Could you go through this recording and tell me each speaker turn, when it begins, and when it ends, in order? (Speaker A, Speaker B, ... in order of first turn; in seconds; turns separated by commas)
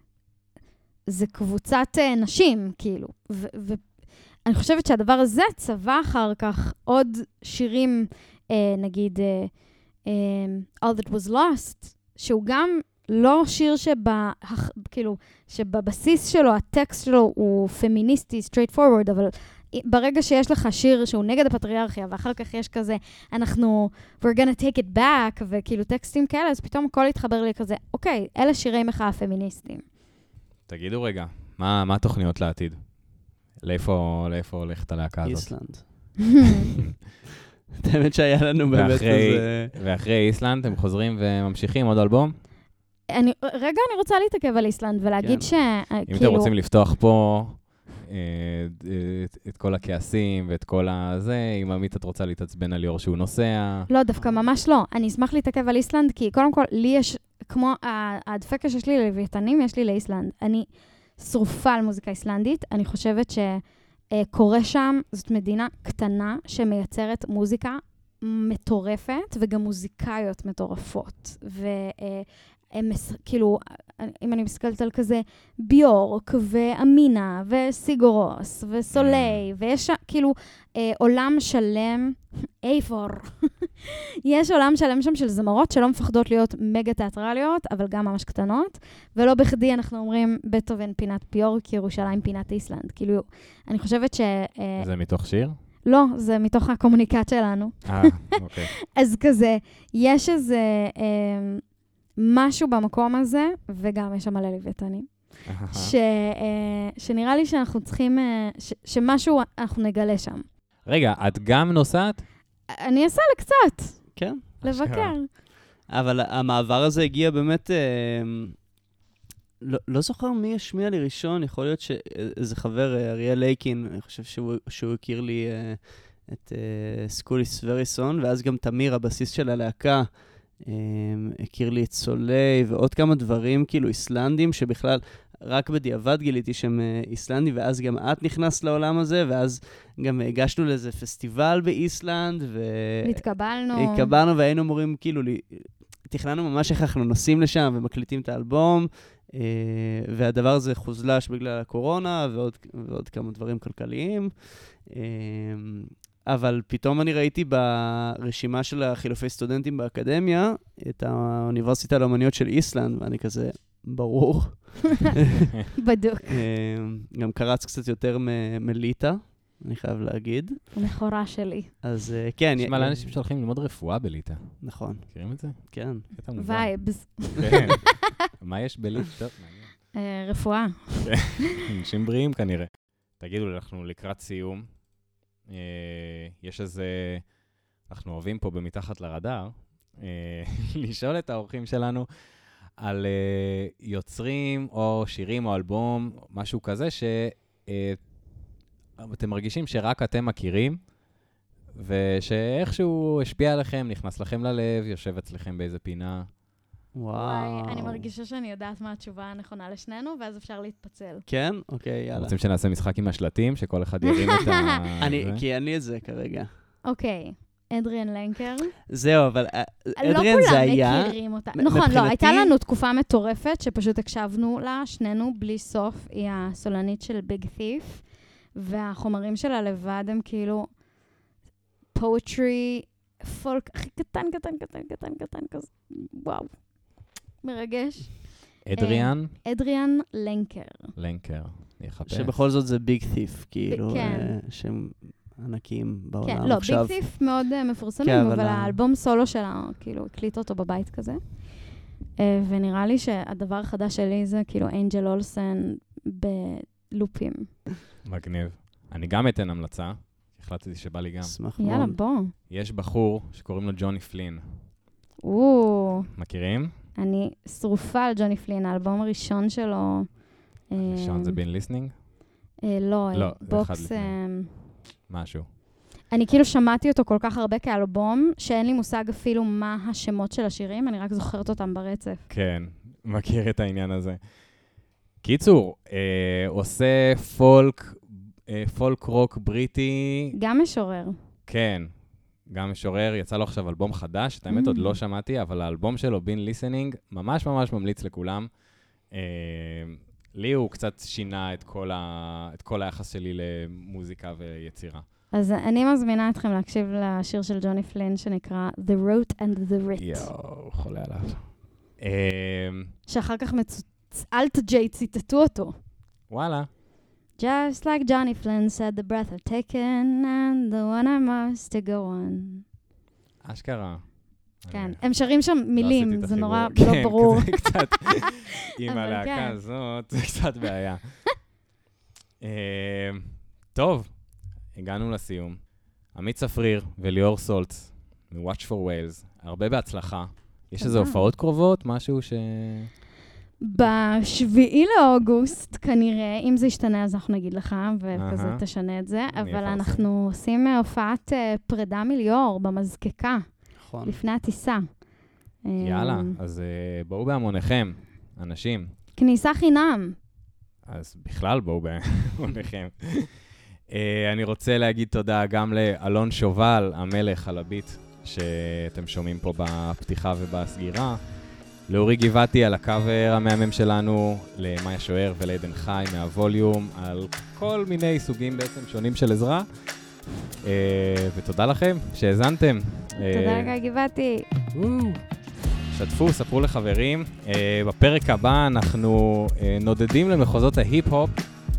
Speaker A: 1.1-29.9, Speaker B: 30.7-36.2, Speaker C: 35.2-36.6, Speaker C: 37.8-39.7, Speaker B: 38.7-42.4, Speaker A: 43.1-46.5, Speaker C: 45.2-45.5, Speaker B: 46.0-53.9, Speaker A: 53.9-63.6, Speaker C: 54.1-54.4, Speaker A: 64.1-94.9, Speaker B: 78.9-79.5, Speaker B: 94.8-95.6, Speaker A: 95.8-101.6, Speaker B: 97.8-98.7, Speaker A: 102.2-110.4, Speaker B: 105.5-105.9, Speaker B: 110.8-112.2, Speaker A: 112.8-115.3, Speaker C: 114.2-114.6, Speaker B: 114.6-115.2, Speaker C: 115.8-118.7, Speaker C: 119.7-165.2, Speaker A: 143.0-144.1, Speaker A: 165.8-166.4, Speaker C: 166.2-170.7, Speaker A: 170.7-171.7, Speaker C: 171.8-173.2, Speaker B: 172.6-179.9, Speaker C: 174.6-176.1, Speaker A: 176.3-177.9, Speaker A: 179.9-181.4, Speaker B: 181.1-184.8, Speaker B: 185.4-192.1, Speaker B: 192.7-198.0, Speaker B: 199.0-200.8, Speaker B: 201.8-206.3, Speaker C: 206.9-208.1, Speaker A: 207.1-211.2, Speaker C: 211.3-212.3, Speaker B: 212.1-215.4, Speaker A: 214.3-214.7, Speaker C: 215.0-216.5, Speaker A: 216.8-218.7, Speaker C: 218.9-222.5, Speaker A: 220.0-230.8, Speaker A: 231.9-240.9, Speaker B: 238.7-239.3, Speaker B: 240.9-242.4, Speaker C: 242.1-247.1, Speaker A: 243.7-244.3, Speaker A: 246.2-257.6, Speaker C: 248.0-248.8, Speaker B: 258.0-261.4, Speaker C: 261.2-262.0, Speaker A: 261.6-262.3, Speaker B: 262.5-264.6, Speaker A: 265.2-266.1, Speaker B: 266.1-266.8, Speaker A: 266.9-271.4, Speaker B: 270.8-272.0, Speaker A: 272.6-274.7, Speaker B: 273.1-274.2, Speaker B: 275.1-275.5, Speaker A: 276.1-282.3, Speaker B: 282.3-290.3, Speaker A: 290.3-291.1, Speaker B: 291.5-291.9, Speaker B: 292.4-298.5, Speaker A: 294.5-295.0, Speaker B: 299.1-305.1, Speaker A: 305.3-310.3, Speaker B: 310.0-312.9, Speaker A: 313.1-315.8, Speaker B: 316.3-316.7, Speaker A: 317.4-322.6, Speaker B: 323.4-331.5, Speaker A: 324.7-328.1, Speaker A: 328.9-329.6, Speaker B: 332.4-342.9, Speaker A: 340.8-341.2, Speaker A: 343.6-355.0, Speaker B: 348.1-348.6, Speaker B: 349.3-350.1, Speaker C: 353.8-354.2, Speaker A: 355.6-356.4, Speaker B: 355.8-358.9, Speaker A: 359.2-360.1, Speaker B: 360.8-380.0, Speaker B: 380.6-383.7, Speaker A: 383.2-384.4, Speaker B: 384.7-385.3, Speaker B: 385.9-391.6